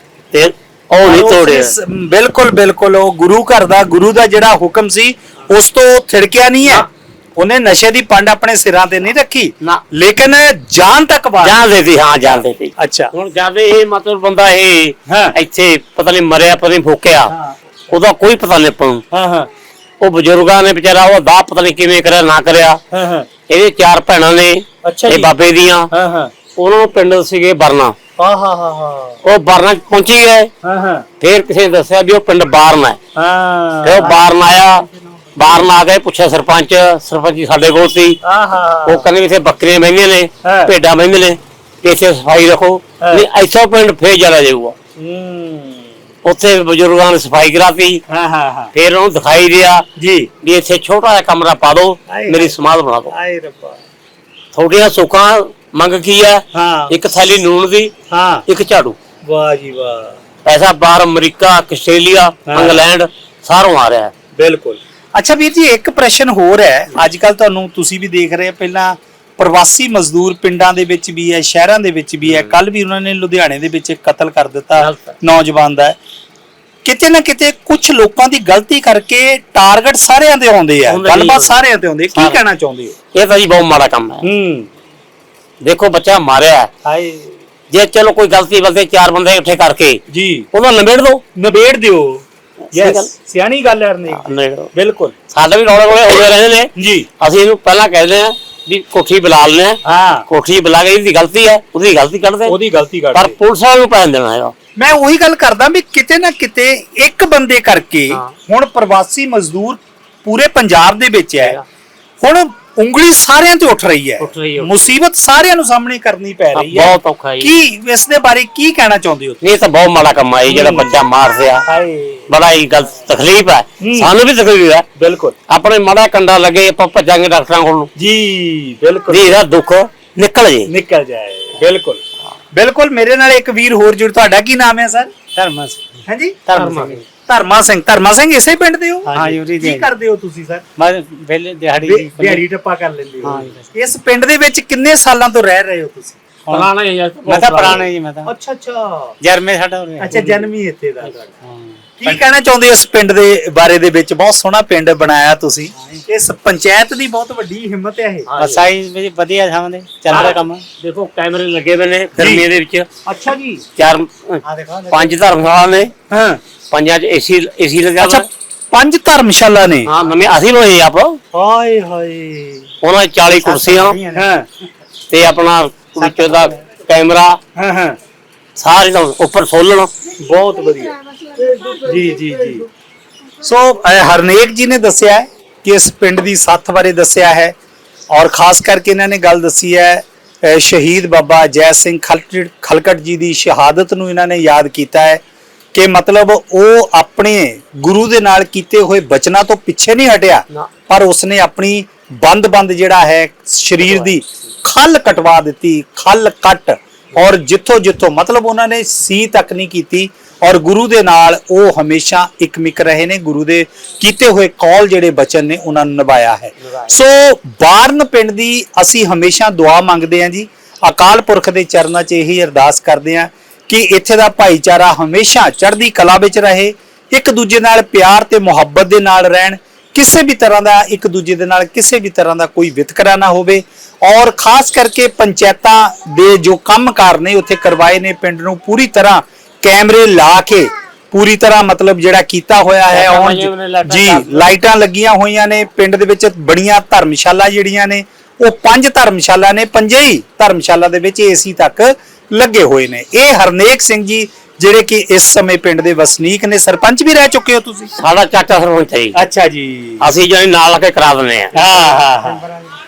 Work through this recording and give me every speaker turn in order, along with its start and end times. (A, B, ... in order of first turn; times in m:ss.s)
0:00.3-0:01.7 A
0:01.0-0:11.6 B
0:11.4-0:17.3 A
0:12.2-0:13.1 B
0:15.1-0:15.4 B
0:17.3-0:17.6 B
0:17.9-0:19.0 A
0:19.1-0:19.5 B
0:20.0-0:22.8 A
0:22.9-0:23.3 B
0:23.5-0:25.9 A
0:24.8-0:25.3 B
0:25.9-0:26.3 B
0:26.6-0:28.0 A
0:28.2-0:29.2 B
0:29.2-0:30.5 A
0:30.6-0:31.1 B
0:31.2-0:33.0 A
0:33.2-0:34.3 B
0:33.8-0:38.2 A
0:38.2-0:39.1 B
0:38.9-0:44.8 A
0:40.4-0:40.7 B
0:43.0-0:43.3 B
0:45.0-0:45.9 B
0:46.2-0:48.0 A
0:48.1-0:48.7 B
0:48.7-0:49.9 A
0:50.0-0:50.3 B
0:50.4-0:53.1 A
0:52.1-0:52.6 B
0:53.1-0:53.8 B
0:54.5-0:57.9 A
0:56.5-0:57.0 B
0:58.1-0:58.4 B
0:58.5-0:59.0 A
0:59.2-1:00.2 B
1:00.5-1:04.1 A
1:02.5-1:02.9 B
1:04.4-1:16.0 B
1:12.2-1:12.6 A
1:14.8-1:15.2 A
1:16.8-1:23.0 B
1:20.9-1:21.6 A
1:22.1-1:22.4 A
1:23.2-1:24.3 A
1:24.2-1:24.7 B
1:25.6-1:26.7 A
1:26.8-1:27.4 B
1:27.7-1:30.0 A
1:30.1-1:30.5 B
1:30.5-1:31.2 A
1:31.4-1:35.1 B
1:32.7-1:33.1 A
1:34.1-1:34.7 A
1:35.3-1:42.6 A
1:36.8-1:37.1 B
1:39.8-1:40.3 B
1:42.5-1:43.4 B
1:43.1-1:44.5 A
1:44.8-1:51.6 B
1:51.4-1:51.6 A
1:52.2-1:59.4 B
1:54.2-1:54.9 A
1:56.6-1:57.5 A
1:59.4-2:01.6 A
2:00.5-2:00.9 B
2:01.7-2:02.3 B
2:02.3-2:04.9 A
2:03.8-2:04.1 B
2:05.0-2:05.3 B
2:05.5-2:07.9 A
2:08.0-2:09.4 B
2:09.1-2:10.7 A
2:10.7-2:12.0 B
2:12.5-2:15.1 B
2:15.4-2:15.9 C
2:16.1-2:16.5 B
2:16.5-2:17.0 C
2:16.5-2:17.0 A
2:17.3-2:20.6 B
2:19.1-2:19.9 C
2:20.8-2:22.4 C
2:21.8-2:26.6 B
2:23.2-2:23.7 C
2:26.5-2:27.9 A
2:27.3-2:28.3 C
2:28.3-2:29.2 B
2:29.2-2:30.5 C
2:30.0-2:31.3 B
2:31.4-2:31.8 C
2:32.0-2:38.3 B
2:35.8-2:36.0 C
2:38.3-2:38.6 A
2:38.4-2:40.7 C
2:40.1-2:40.4 B
2:40.1-2:42.9 A
2:42.2-2:42.4 B
2:43.1-2:43.6 B
2:43.8-2:45.9 A
2:44.4-2:45.2 C
2:46.1-2:46.4 B
2:46.7-2:48.3 A
2:48.0-2:49.9 B
2:49.9-2:51.2 A
2:51.3-2:52.7 B
2:52.8-2:54.0 A
2:53.4-2:54.4 C
2:54.1-2:54.5 B
2:55.1-2:57.4 A
2:56.0-2:56.6 C
2:57.6-2:58.0 B
2:58.6-2:59.9 A
3:00.2-3:01.0 B
3:01.6-3:02.6 B
3:03.4-3:07.5 B
3:08.1-3:15.2 B
3:15.7-4:17.9 B
3:23.8-3:24.2 A
4:02.9-4:04.5 A
4:18.0-4:19.2 A
4:19.2-4:20.1 B
4:20.0-4:21.6 A
4:21.5-4:22.4 B
4:21.6-4:22.5 C